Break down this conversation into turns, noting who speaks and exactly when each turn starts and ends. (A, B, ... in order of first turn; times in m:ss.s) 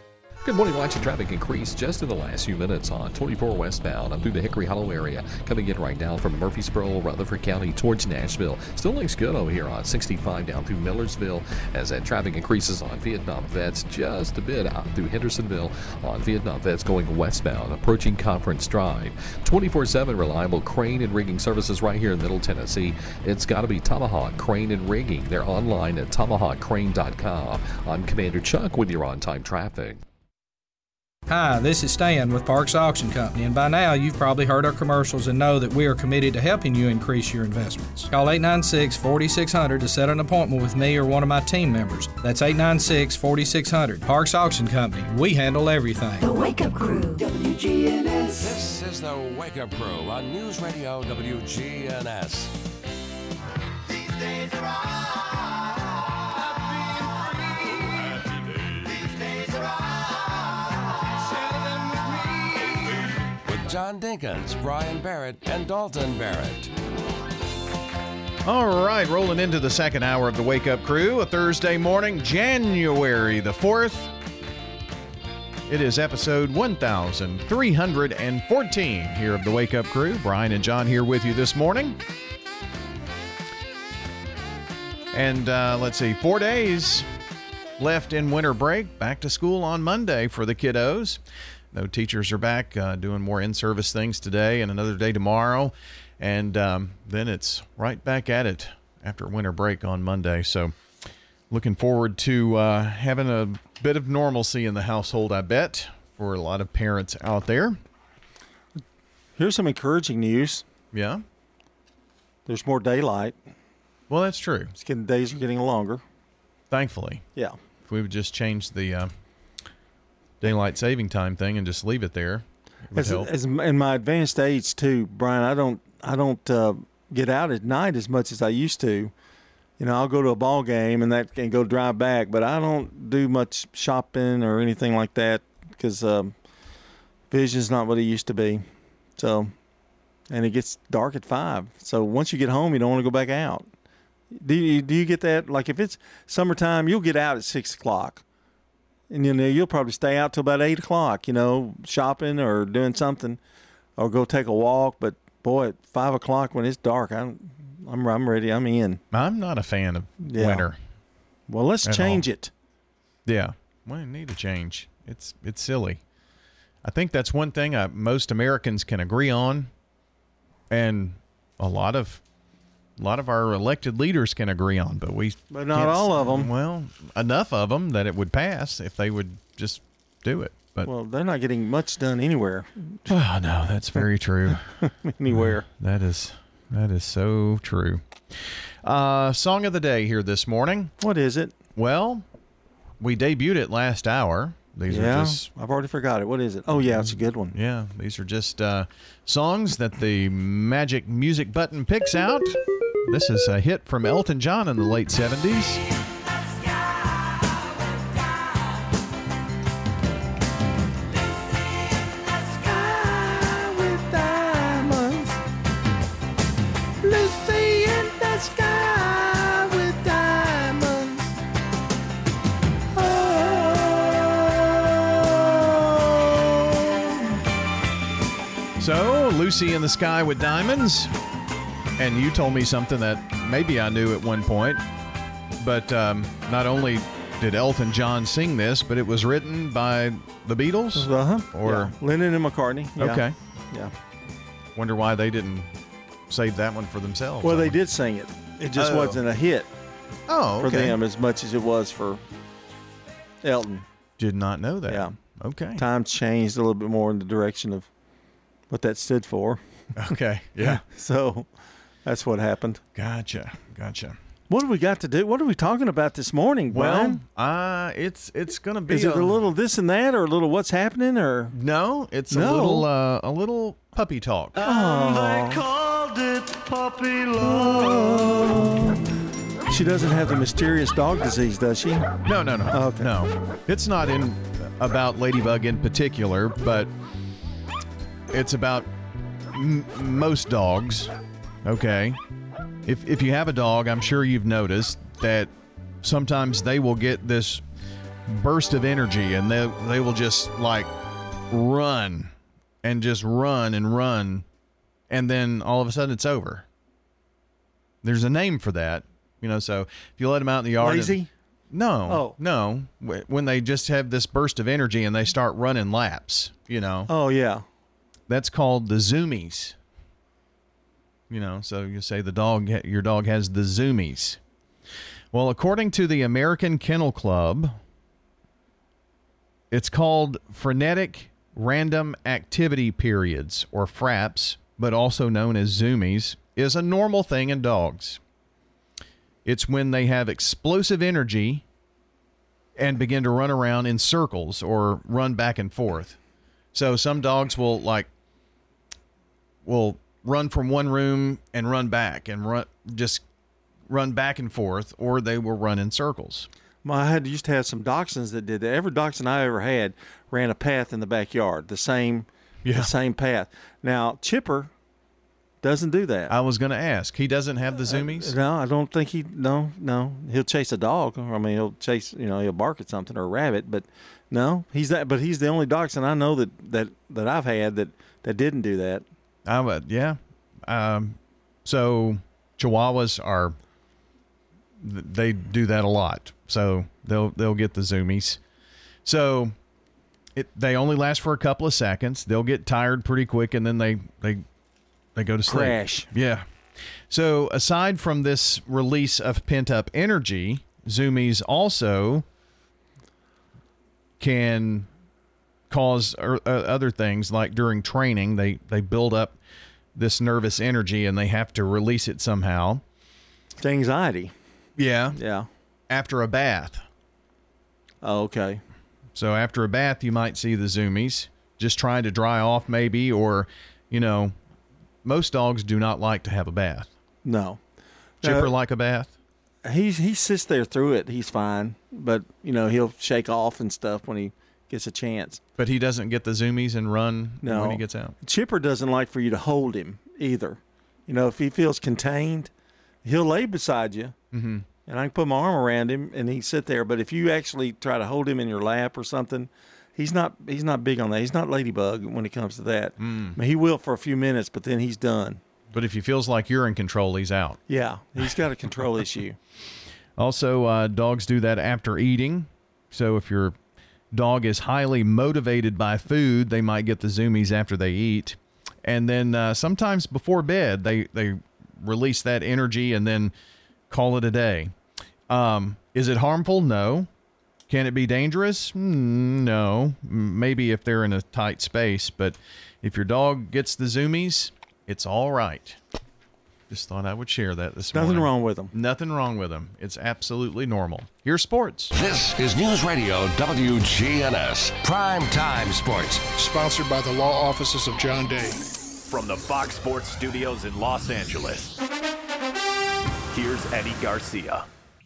0:00.4-0:30.0 A
0:31.9-0:37.1 B
0:38.1-0:38.7 B
0:39.8-0:42.4 B
0:43.1-0:46.2 B
0:46.2-0:48.6 C
0:48.4-0:52.5 D
1:03.4-1:06.7 D
1:08.4-1:14.1 E
1:15.7-1:22.0 E
1:25.1-1:27.0 E
1:27.8-1:31.2 E
1:31.7-1:40.7 E
1:41.5-1:47.8 E
1:49.4-1:50.6 F
1:50.9-1:51.2 E
1:52.4-1:53.4 F
1:54.1-1:54.7 E
1:54.8-1:56.0 F
1:56.7-1:57.2 E
1:57.8-1:59.1 E
2:00.4-2:03.3 E
2:02.9-2:09.1 F
2:09.8-2:16.3 F
2:17.3-2:18.6 F
2:19.2-2:19.5 F
2:20.3-2:23.7 F
2:24.3-2:28.2 F
2:29.1-2:33.4 F
2:34.0-2:39.0 F
2:39.1-2:40.8 E
2:40.2-2:40.7 F
2:41.5-2:42.5 F
2:41.8-2:42.2 E
2:43.2-2:46.0 E
2:46.8-2:49.7 E
2:50.7-2:52.2 E
2:53.0-3:00.9 E
2:55.5-2:56.5 F
3:00.8-3:03.1 F
3:03.1-3:04.7 E
3:03.9-3:05.6 F
3:05.3-3:10.9 E
3:11.0-3:11.5 F
3:11.8-3:12.2 E
3:13.0-3:15.5 E
3:14.9-3:17.5 F
3:16.7-3:22.6 E
3:23.1-3:25.8 E
3:32.6-3:35.4 F
3:37.0-3:41.3 F
3:42.9-3:44.2 F
3:48.8-3:51.1 E
3:52.0-3:54.8 E
3:55.6-4:01.9 E
4:00.9-4:03.9 F
4:03.0-4:03.3 E
4:04.8-4:05.7 E
4:06.3-4:07.7 E
4:07.4-4:09.7 F
4:08.8-4:09.2 E
4:10.3-4:11.0 E
4:10.6-4:12.2 F
4:13.4-4:13.8 F
4:14.2-4:15.8 E
4:14.9-4:15.1 F
4:15.8-4:17.9 F
4:18.7-4:19.6 F
4:20.0-4:20.8 E
4:20.6-4:21.5 F
4:22.0-4:22.8 F
4:23.0-4:24.2 E
4:24.5-4:27.2 F
4:26.7-4:29.5 E
4:28.9-4:31.5 F
4:31.5-4:34.7 E
4:32.3-4:32.8 F
4:34.6-4:35.7 F
4:37.3-4:39.0 F
4:39.7-4:42.0 F
4:42.2-4:46.9 E
4:42.7-4:43.1 F
4:48.3-4:48.9 E
4:49.5-4:51.1 E
4:51.6-4:52.2 E
4:52.8-4:55.5 E
4:56.0-4:57.6 E
4:58.3-5:00.9 E
5:01.5-5:02.3 E
5:02.8-5:04.4 E
5:05.1-5:06.6 E
5:08.0-5:11.2 E
5:10.8-5:11.3 F
5:11.7-5:17.1 E
5:12.1-5:12.4 F
5:17.1-5:17.6 F
5:18.3-5:19.8 E
5:21.3-5:24.4 E
5:25.3-5:27.7 E
5:29.7-5:38.2 E
5:39.4-5:41.6 E
5:42.8-5:46.2 E
5:46.7-5:48.1 E
5:49.6-5:53.2 E
5:53.9-5:56.5 E
5:56.8-6:04.7 F
6:02.6-6:02.9 E
6:05.6-6:06.3 F
6:06.3-6:08.3 E
6:07.9-6:19.0 F
6:19.4-6:23.6 E
6:24.8-6:28.4 E
6:29.0-6:29.5 E
6:30.3-6:34.4 E
6:35.2-6:36.4 E
6:35.5-6:36.1 F
6:37.1-6:42.2 E
6:44.2-6:44.9 E
6:45.7-6:49.4 E
6:49.9-6:52.8 E
6:53.6-6:54.3 F
6:54.8-6:55.2 E
6:55.1-6:55.5 F
6:55.9-6:56.8 E
6:58.0-6:58.6 F
6:59.1-7:04.3 E
7:05.0-7:06.9 E
7:07.2-7:07.6 F
7:08.2-7:08.5 F
7:08.2-7:09.1 E
7:09.6-7:15.4 F
7:15.6-7:18.1 E
7:17.4-7:22.5 F
7:23.0-7:24.1 F
7:24.3-7:24.6 E
7:24.9-7:35.4 F
7:33.0-7:33.4 E
7:35.7-7:37.6 E
7:37.7-7:39.4 F
7:40.2-7:43.6 E
7:44.1-7:53.3 E
7:53.9-7:54.7 E
7:55.3-7:57.1 E
7:57.7-8:05.8 E
8:06.7-8:11.9 E
8:07.9-8:08.7 F
8:11.9-8:16.2 D
8:16.4-8:18.6 G
8:19.1-8:21.8 H
8:23.3-8:24.7 H